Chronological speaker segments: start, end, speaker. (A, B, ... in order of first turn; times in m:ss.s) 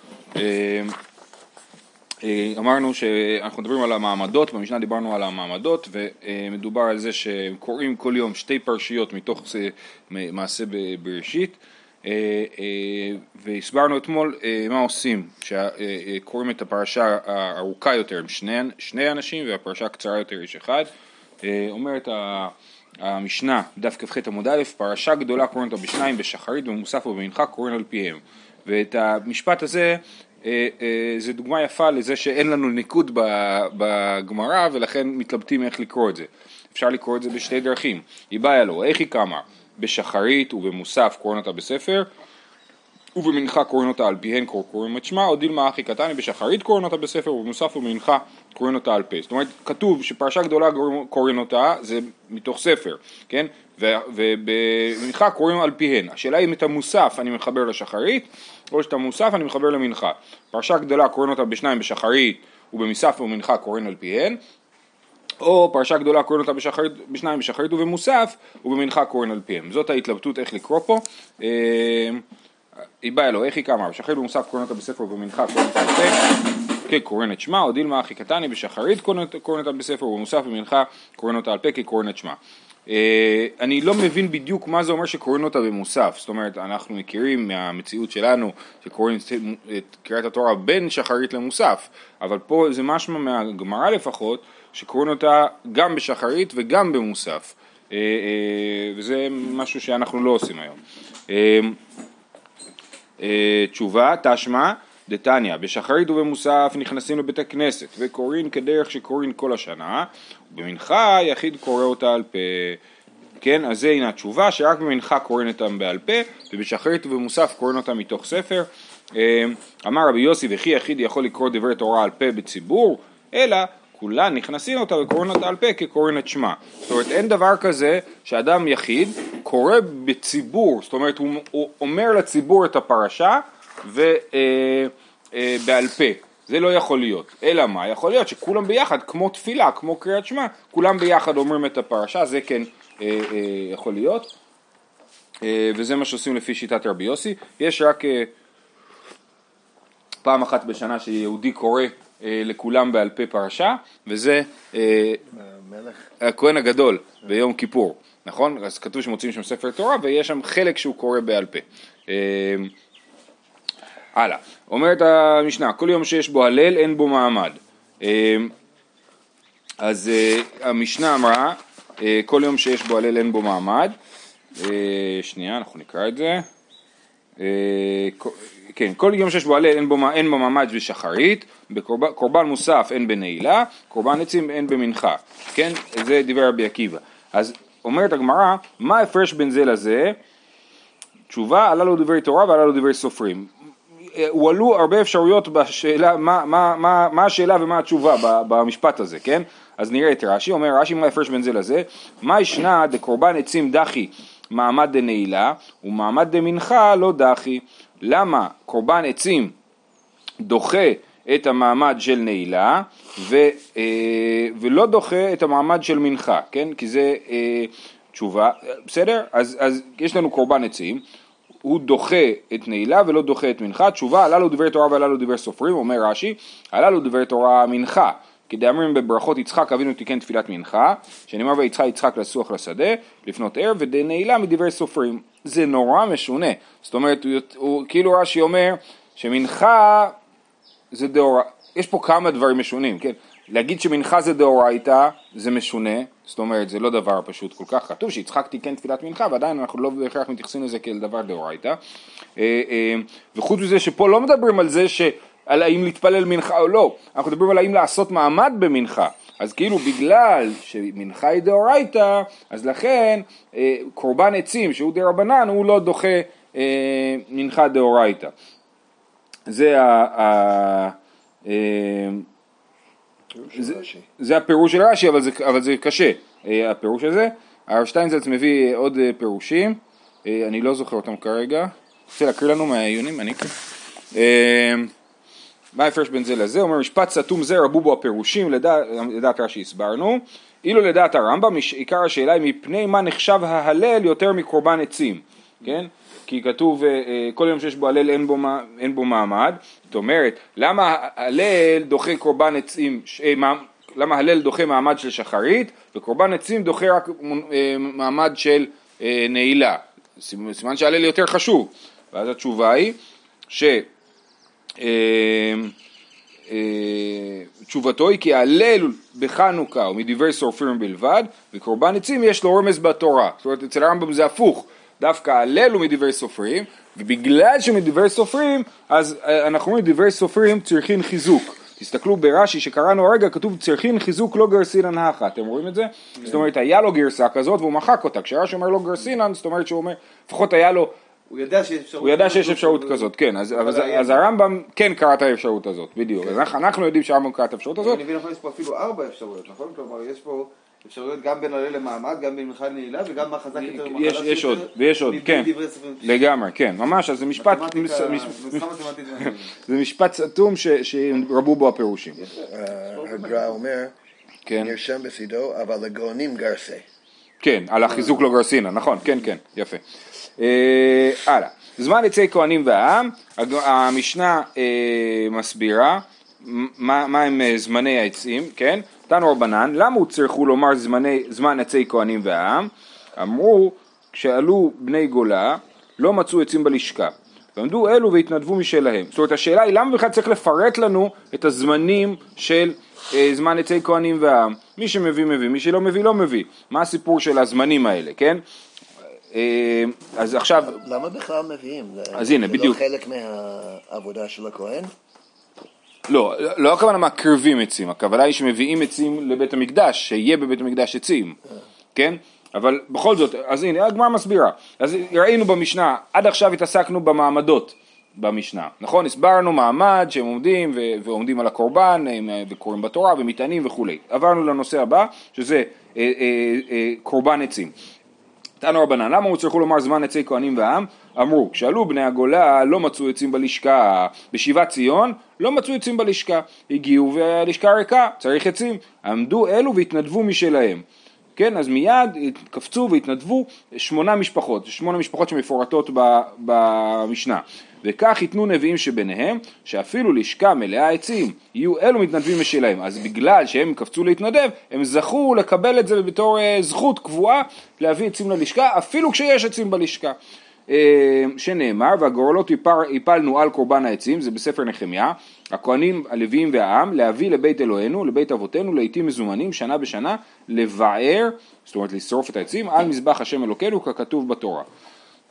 0:00.4-0:00.9 A
0:02.2-0:20.9 A
0:21.4-0:42.1 A
0:43.2-1:04.4 A
1:05.4-1:12.2 A
1:13.0-1:16.2 A
1:16.9-1:41.8 A
1:43.2-1:52.8 A
1:53.4-2:24.3 A
2:25.4-2:28.3 A
2:30.2-2:35.2 A
2:35.3-2:36.1 B
2:36.2-2:42.7 A
2:44.2-2:48.5 A
2:49.8-2:53.9 A
2:54.6-2:56.5 A
2:57.4-3:10.2 A
3:11.3-3:13.5 A
3:14.1-3:29.5 A
3:30.4-3:41.0 A
3:41.6-4:00.2 A
4:00.9-4:11.8 A
4:12.4-4:28.3 A
4:29.5-4:31.0 A
4:31.5-4:32.3 A
4:33.3-4:34.1 B
4:33.6-4:43.5 A
4:44.1-4:44.9 A
4:45.8-5:13.0 A
5:13.5-5:13.9 A
5:14.8-5:15.7 A
5:16.5-5:40.9 A
5:41.3-5:44.2 C
5:42.0-5:48.0 A
5:47.8-5:56.1 C
5:53.6-5:55.5 A
5:56.0-5:58.6 A
5:57.4-5:59.5 C
5:59.2-6:02.2 A
6:02.4-6:03.9 B
6:03.0-6:03.3 C
6:04.5-6:04.7 A
6:04.6-6:06.8 B
6:07.4-6:09.8 A
6:10.4-6:38.4 A
6:39.3-6:40.8 A
6:40.6-6:44.9 B
6:42.1-6:42.8 A
6:46.1-6:51.4 A
6:52.0-7:07.7 A
7:08.6-7:20.8 A
7:21.4-7:40.2 A
7:40.7-7:54.7 A